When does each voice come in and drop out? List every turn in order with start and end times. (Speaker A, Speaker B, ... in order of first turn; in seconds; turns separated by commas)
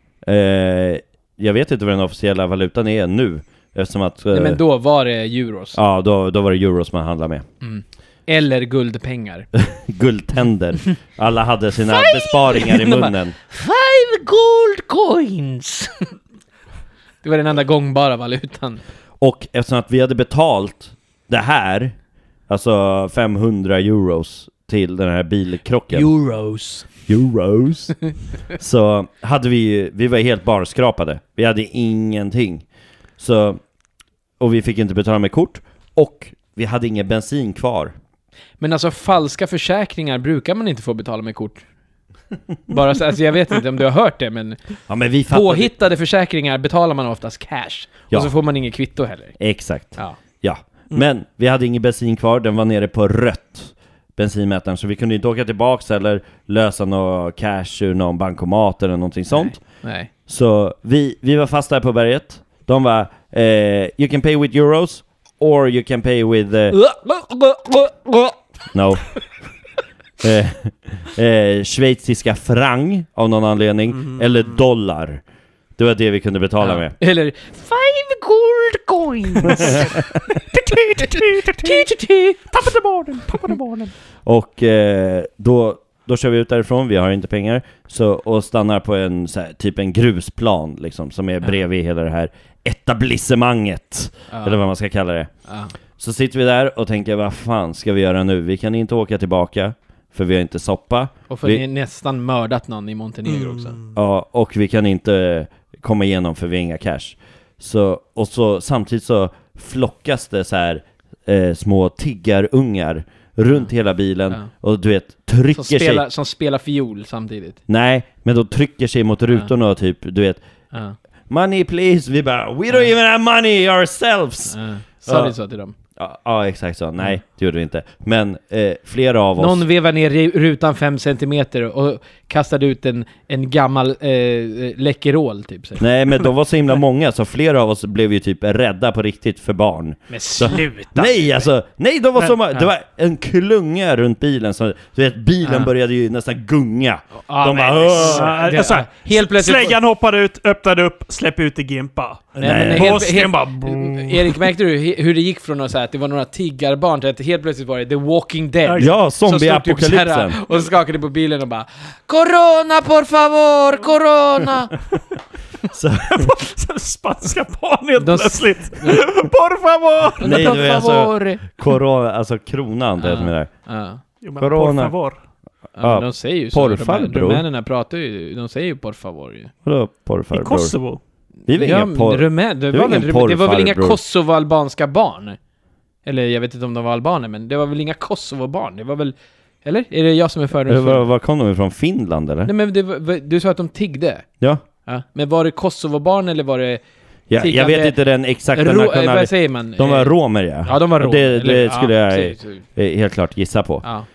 Speaker A: 0.2-4.6, Speaker B: 4.3-5.8, Speaker A: 5.7-7.5, Speaker B: 7.6-9.5, Speaker A: 9.6-13.4, Speaker B: 11.9-16.1, Speaker B: 17.2-18.8, Speaker A: 19.2-21.9, Speaker A: 22.5-26.1, Speaker B: 25.9-26.9, Speaker A: 27.1-28.0, Speaker A: 28.5-32.6, Speaker A: 33.2-33.6, Speaker A: 34.4-37.9, Speaker B: 38.6-41.6, Speaker B: 42.7-44.6, Speaker A: 44.9-45.7, Speaker B: 45.3-49.4, Speaker A: 49.4-59.6, Speaker B: 59.3-60.1, Speaker A: 60.3-66.8, Speaker B: 66.7-68.4, Speaker A: 68.7-69.2, Speaker A: 70.2-75.2, Speaker C: 74.0-74.6, Speaker A: 75.8-77.0, Speaker B: 76.6-80.1, Speaker A: 79.5-79.9, Speaker C: 80.6-81.9, Speaker B: 80.8-82.5, Speaker C: 82.5-83.9, Speaker A: 84.2-95.3, Speaker B: 94.3-94.6, Speaker B: 95.5-95.7, Speaker A: 96.0-101.6, Speaker B: 101.3-103.8, Speaker C: 103.3-104.0, Speaker A: 104.0-116.1, Speaker B: 115.5-117.6, Speaker A: 117.7-120.4, Speaker A: 121.3-125.3, Speaker B: 124.5-125.8, Speaker A: 126.0-129.6, Speaker B: 129.4-135.8, Speaker A: 135.8-148.4, Speaker B: 140.1-141.5, Speaker B: 145.4-145.7, Speaker B: 147.3-149.8, Speaker C: 148.0-154.4, Speaker A: 152.4-153.1, Speaker B: 152.4-164.7, Speaker C: 158.7-158.9, Speaker A: 158.8-160.4, Speaker A: 165.7-166.3, Speaker C: 166.1-170.5, Speaker B: 168.0-169.0, Speaker B: 170.2-171.5, Speaker A: 170.2-173.5, Speaker B: 173.0-174.0, Speaker C: 174.2-175.2, Speaker A: 174.4-175.0, Speaker B: 175.8-179.5, Speaker A: 175.8-177.4, Speaker A: 179.6-180.8, Speaker C: 180.3-181.0, Speaker A: 181.5-184.0, Speaker B: 181.5-185.4, Speaker B: 186.1-191.0, Speaker A: 190.7-192.5, Speaker B: 192.5-194.3, Speaker B: 194.9-196.8, Speaker A: 197.3-203.8, Speaker B: 197.4-198.0, Speaker B: 198.5-200.1, Speaker B: 200.6-202.6